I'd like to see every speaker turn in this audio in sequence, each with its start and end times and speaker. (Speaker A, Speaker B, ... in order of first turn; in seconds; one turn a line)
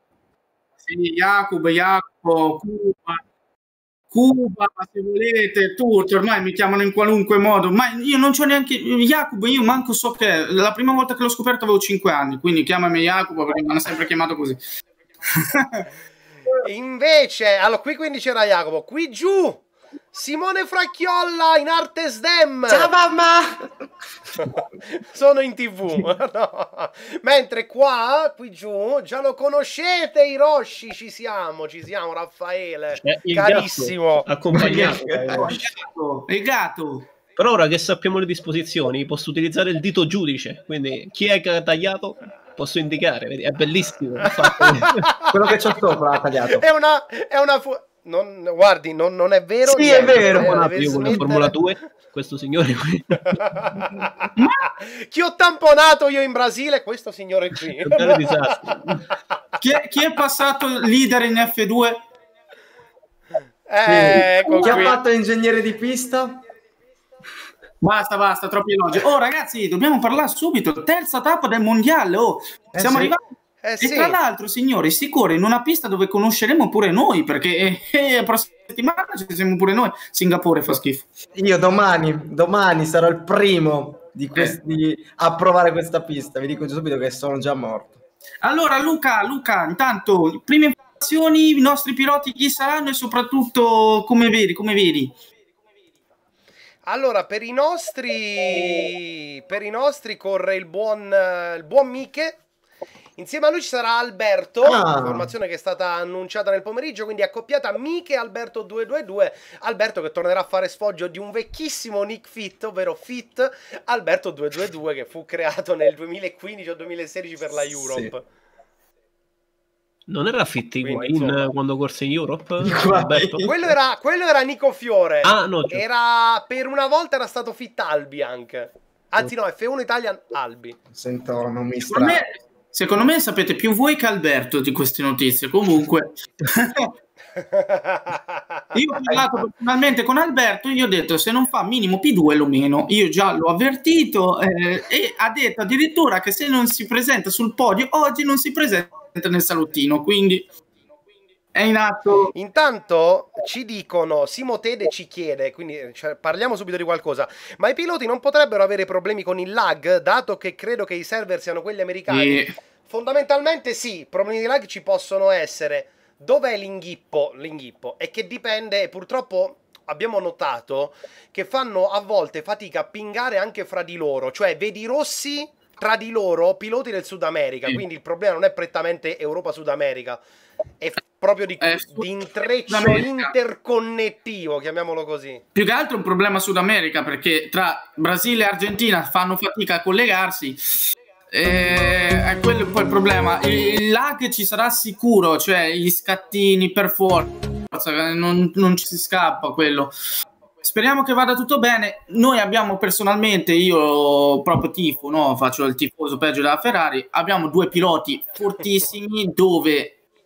Speaker A: 0.8-3.2
Speaker A: 4.1-14.6
Speaker A: 15.4-15.8
Speaker B: 16.6-22.9
Speaker C: 22.7-23.7
Speaker B: 24.4-34.2
Speaker D: 33.0-35.7
Speaker C: 34.5-35.6
Speaker A: 35.5-37.1
Speaker D: 37.4-45.0
Speaker B: 44.2-45.6
Speaker C: 45.3-46.6
Speaker B: 46.6-51.6
Speaker C: 49.6-51.2
Speaker D: 49.9-53.4
Speaker B: 53.3-58.5
Speaker A: 54.4-54.7
Speaker D: 57.8-58.8
Speaker A: 59.6-62.0
Speaker B: 63.7-64.9
Speaker C: 63.8-66.4
Speaker A: 64.4-64.9
Speaker A: 67.8-73.2
Speaker C: 72.7-73.2
Speaker B: 73.6-74.2
Speaker A: 73.8-81.0
Speaker C: 81.3-88.0
Speaker A: 88.4-95.1
Speaker B: 96.8-102.4
Speaker B: 103.2-118.2
Speaker C: 104.6-105.3
Speaker C: 117.7-118.1
Speaker D: 120.1-123.5
Speaker B: 120.8-121.5
Speaker C: 122.6-123.7
Speaker B: 123.4-130.8
Speaker D: 125.2-125.8
Speaker C: 130.9-132.2
Speaker A: 131.9-136.9
Speaker B: 137.4-138.6
Speaker A: 138.7-150.5
Speaker A: 151.5-152.3
Speaker B: 152.3-180.2
Speaker A: 162.1-162.5
Speaker B: 180.8-185.4
Speaker A: 181.6-182.1
Speaker A: 182.7-183.3
Speaker A: 185.5-190.6
Speaker A: 191.3-199.9
Speaker A: 200.6-210.0